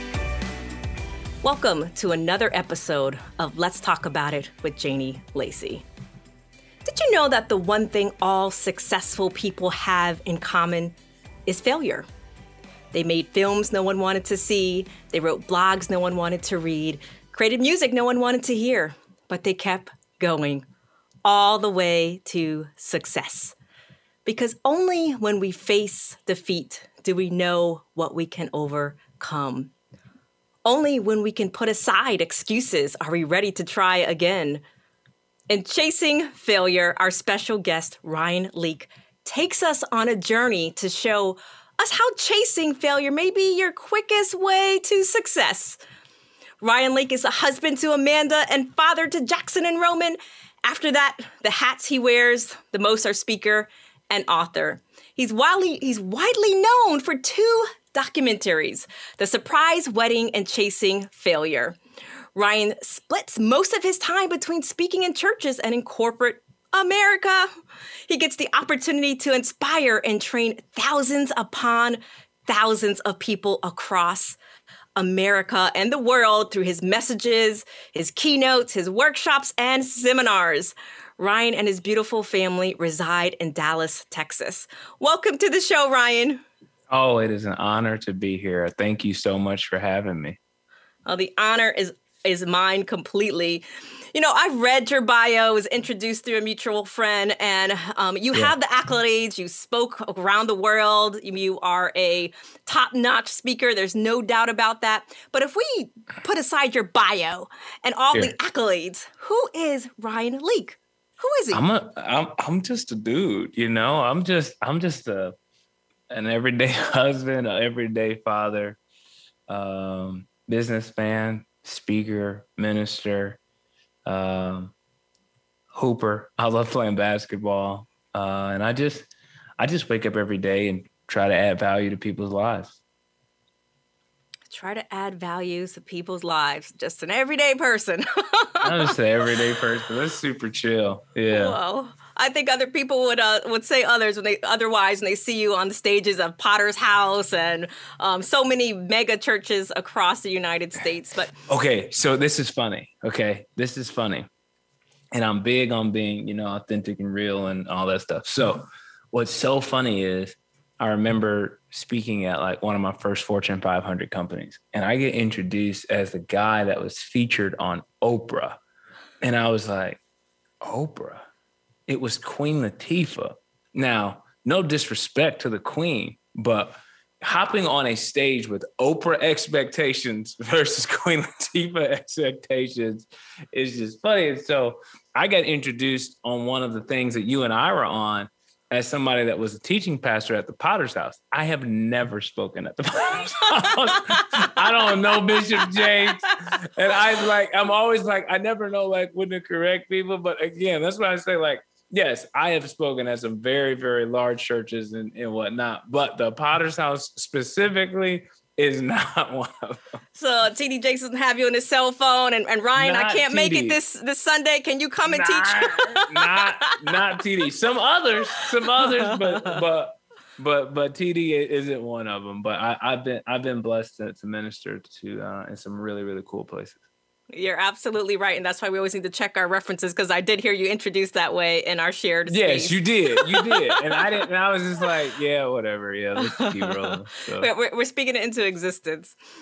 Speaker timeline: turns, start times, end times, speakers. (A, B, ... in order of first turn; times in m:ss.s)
0:01.4-0:05.8 A
0:06.8-0:10.9 A
0:11.5-0:12.1 A
0:12.9-0:20.7 A
0:21.2-0:23.5 A
0:24.2-0:29.7 A
0:30.6-0:34.6 A
0:35.5-0:45.8 A
0:46.6-1:01.8 A
1:02.3-1:07.5 A
1:08.1-1:14.4 A
1:15.0-1:26.4 A
1:26.9-1:30.4 B
1:31.0-1:51.6 A
1:51.5-1:55.4 B
1:56.1-1:58.8 B
1:59.5-2:03.4 B
2:04.0-2:04.7 B
2:05.7-2:12.8 B
2:14.5-2:18.9 A
2:18.6-2:21.6 B
2:21.3-2:31.3 A
2:31.5-2:34.3 B
2:35.1-2:48.6 B
2:49.2-2:50.0 B
2:50.6-2:51.2 B
2:51.9-3:29.8 B
3:13.5-3:14.6 A
3:15.1-3:15.9 A
3:30.1-3:36.9 A
3:32.8-3:33.8 B
3:35.0-3:46.8 B
3:38.4-3:39.6 A
3:47.3-3:54.1 A
3:52.3-3:57.5 B
3:56.2-3:59.2 A